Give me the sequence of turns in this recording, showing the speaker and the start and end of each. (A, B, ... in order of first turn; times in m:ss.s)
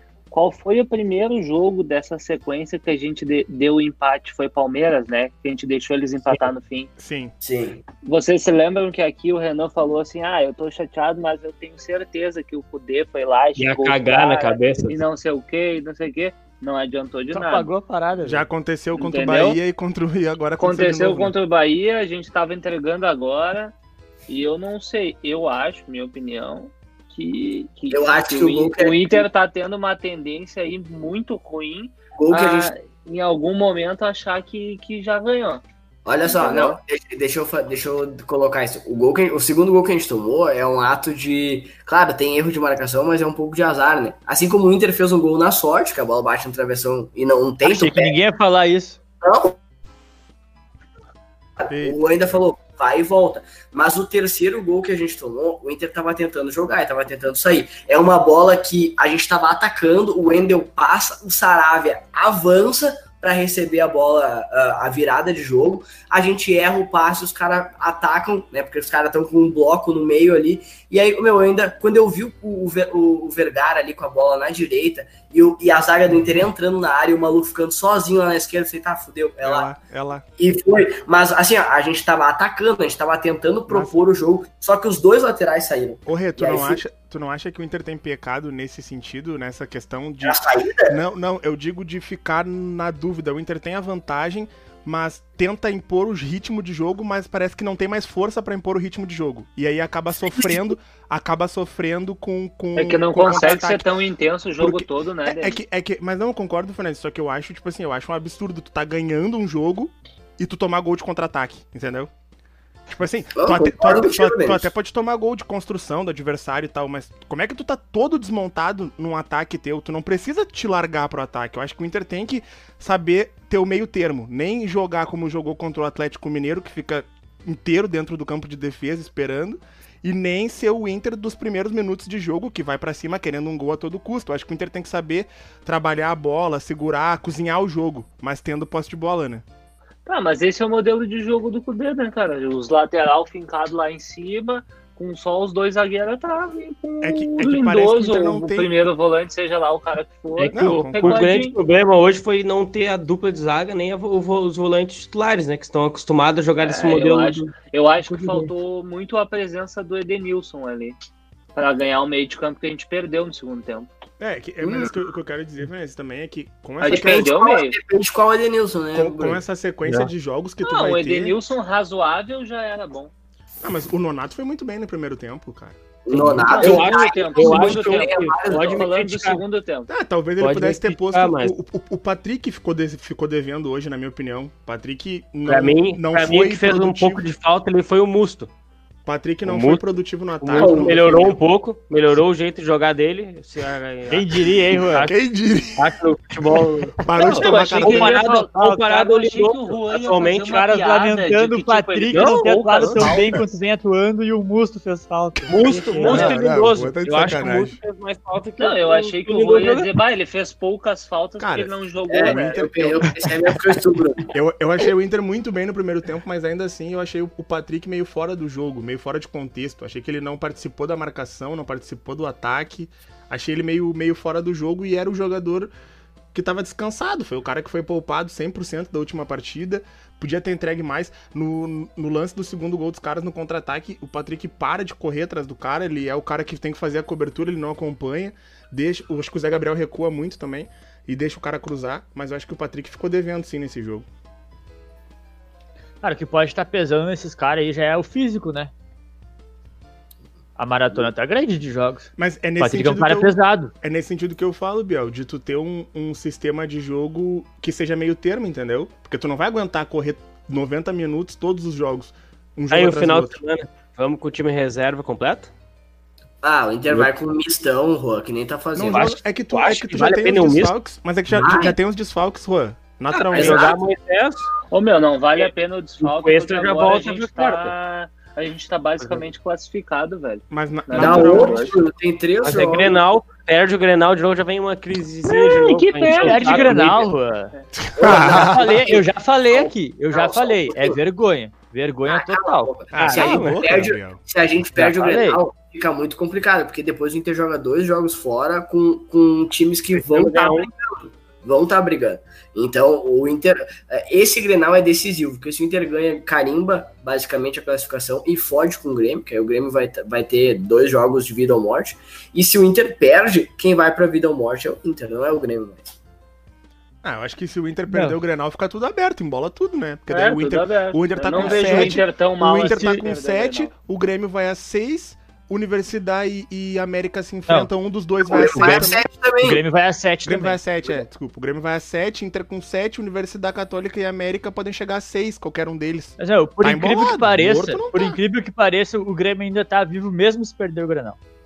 0:00.3-0:06.9 A
0:07.0-0:07.3 B
0:07.4-0:07.8 C
0:08.0-0:17.7 A
0:13.6-0:15.0 D
0:17.3-0:18.4 E
0:18.2-0:21.3 B
0:19.0-0:19.6 A
0:20.6-0:23.7 A
0:24.3-0:35.6 A
0:27.9-0:29.3 C
0:32.2-0:32.7 C
0:36.0-0:48.2 C
0:36.2-0:36.8 A
0:47.6-0:49.0 E
0:49.2-0:49.6 C
0:51.6-1:19.7 C
0:51.7-0:52.0 B
1:19.4-1:20.2 B
1:20.4-1:26.8 C
1:23.7-1:24.0 B
1:26.0-1:43.9 B
1:30.2-1:31.0 C
1:40.3-1:40.7 C
1:42.8-1:45.6 A
1:44.6-1:52.1 B
1:52.9-2:19.4 B
1:53.4-1:54.7 C
2:20.0-2:31.6 A
2:27.0-2:28.7 B
2:30.4-2:38.5 D
2:30.5-2:31.3 B
2:36.6-2:41.0 A
2:41.6-2:43.9 A
2:44.2-2:47.3 B
2:44.6-2:45.0 C
2:46.8-2:47.8 A
2:46.8-2:49.4 C
2:48.9-2:51.4 B
2:50.6-2:53.1 A
2:53.6-2:56.7 B
2:56.0-2:58.9 C
2:56.4-2:59.4 D
2:56.4-2:59.9 A
2:59.9-3:07.3 B
3:00.4-3:00.8 E
3:00.5-3:01.6 D
3:05.4-3:08.5 D
3:09.0-3:11.3 B
3:09.4-3:09.8 D
3:10.4-3:14.4 D
3:10.5-3:11.3 C
3:14.1-3:15.1 E
3:15.0-3:16.0 B
3:15.8-3:20.6 D
3:17.0-3:18.2 B
3:17.2-3:23.4 A
3:17.9-3:18.8 E
3:20.4-3:26.4 E
3:22.1-3:23.1 D
3:25.5-3:29.9 D
3:25.8-3:26.3 A
3:26.0-3:27.8 B
3:28.6-3:32.7 A
3:31.4-3:33.6 B
3:32.1-3:34.3 C
3:34.3-3:45.7 B
3:46.3-4:04.0 B
4:06.0-4:08.7 E
4:10.6-4:12.1 E
4:12.2-4:23.4 B
4:12.6-4:13.7 E
4:22.7-4:25.5 D
4:26.4-4:29.1 C
4:28.8-4:33.7 B
4:28.9-4:30.7 D
4:31.3-4:31.8 C
4:33.1-4:34.5 D
4:33.3-4:33.7 C
4:34.7-4:41.7 A
4:36.0-4:37.7 D
4:40.5-4:41.7 B
4:41.0-4:43.0 C
4:42.4-4:47.1 D
4:45.2-4:47.0 A
4:46.2-4:47.5 E
4:47.8-4:48.6 B
4:48.0-4:51.0 C
4:48.1-4:52.7 E
4:52.1-5:15.9 C
4:52.9-4:54.2 B
4:53.0-4:53.6 D
4:54.8-4:55.4 E
5:00.0-5:00.7 D
5:17.0-5:29.0 B
5:17.9-5:18.2 E
5:20.1-5:23.7 A
5:21.4-5:22.0 E
5:22.7-5:22.9 E
5:28.3-5:29.6 C
5:28.3-5:28.9 E
5:29.4-5:30.6 E
5:30.3-5:38.2 B
5:36.2-5:41.2 E